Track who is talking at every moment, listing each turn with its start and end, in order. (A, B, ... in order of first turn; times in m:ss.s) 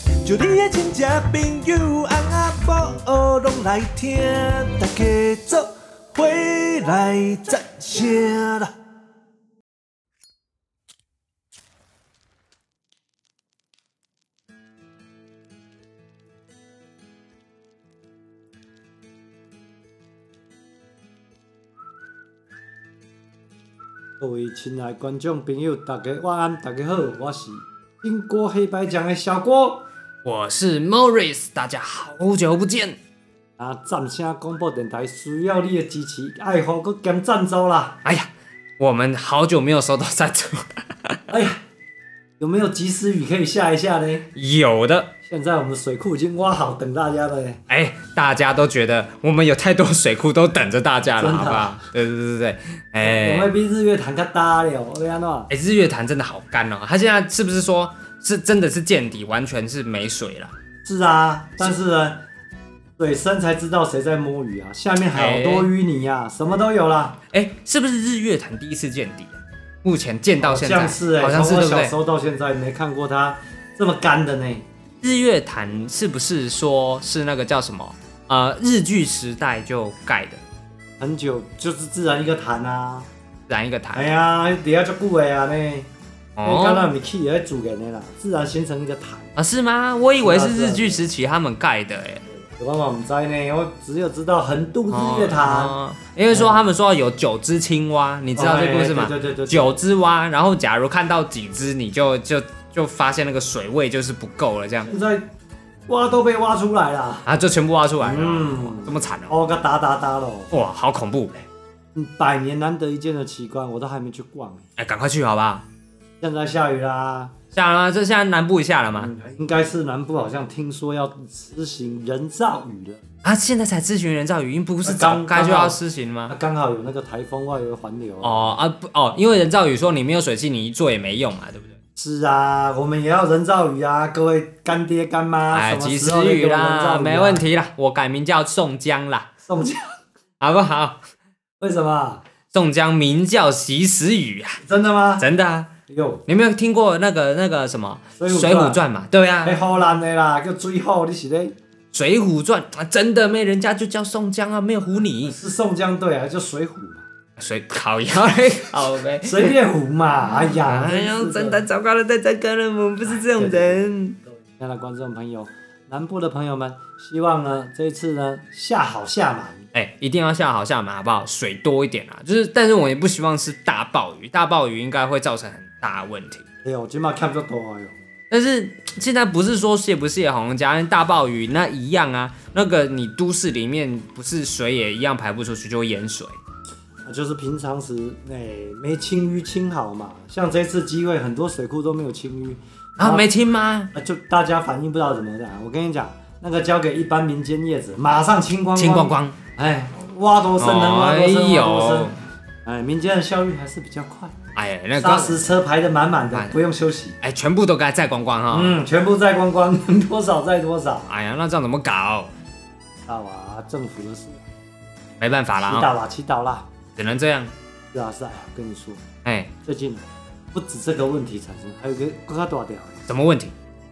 0:00.2-0:08.7 A
0:24.2-0:29.8 B
0:30.2-0:33.0 C
0:33.6-0:38.0 B
0:38.0-0:41.2 C
0:41.3-0:41.6 B
0:42.4-0:44.3 B
0:44.4-0:45.1 C
0:45.3-0:47.6 B
0:47.7-0:53.5 C
0:51.2-0:51.9 B
0:53.0-0:55.5 B
0:55.5-1:00.5 C
1:00.8-1:02.2 B
1:03.0-1:07.2 B
1:05.1-1:05.7 C
1:07.3-1:11.9 C
1:10.4-1:14.7 B
1:15.0-1:20.4 C
1:21.0-1:23.1 B
1:23.5-1:24.1 C
1:23.9-1:25.9 B
1:26.4-1:26.9 C
1:26.4-1:29.3 B
1:29.4-1:32.3 C
1:30.2-1:31.0 B
1:32.6-1:35.7 B
1:34.9-1:44.9 C
1:36.3-1:36.6 B
1:38.4-1:39.8 B
1:44.9-1:45.3 B
1:45.9-1:47.3 B
1:47.3-1:49.4 C
1:48.0-1:50.5 B
1:50.5-1:51.4 C
1:52.0-1:54.6 B
1:54.8-1:55.7 C
1:56.2-1:57.3 B
1:57.5-1:59.1 C
1:59.0-2:03.0 B
2:03.2-2:06.3 C
2:04.8-2:05.8 B
2:06.3-2:08.5 B
2:08.2-2:11.8 C
2:12.0-2:17.4 B
2:15.5-2:19.3 C
2:19.5-2:20.0 B
2:20.4-2:21.0 C
2:21.6-2:22.2 B
2:22.5-2:24.6 C
2:24.6-2:25.3 B
2:25.2-2:25.7 C
2:25.9-2:26.2 B
2:26.3-2:29.6 C
2:28.2-2:28.8 B
2:29.4-2:31.6 B
2:31.9-2:35.4 C
2:35.2-2:37.1 B
2:37.4-2:39.5 C
2:39.2-2:41.6 B
2:40.3-2:44.2 C
2:43.3-2:43.9 B
2:44.5-2:49.7 B
2:49.7-2:56.4 C
2:56.6-2:58.0 B
2:58.3-3:06.4 C
3:07.0-3:13.3 B
3:13.0-3:13.9 C
3:13.9-3:22.1 B
3:18.8-3:19.4 C
3:20.6-3:22.2 C
3:22.7-3:24.4 B
3:24.6-3:25.4 C
3:25.0-3:27.2 B
3:26.3-3:26.6 C
3:27.2-3:28.8 C
3:28.5-3:31.1 B
3:31.1-3:32.3 C
3:33.1-3:34.4 B
3:35.2-3:35.9 C
3:35.6-3:36.7 B
3:37.0-3:37.5 C
3:37.9-3:39.0 B
3:39.2-3:39.5 C
3:39.6-3:43.1 B
3:43.1-3:43.5 C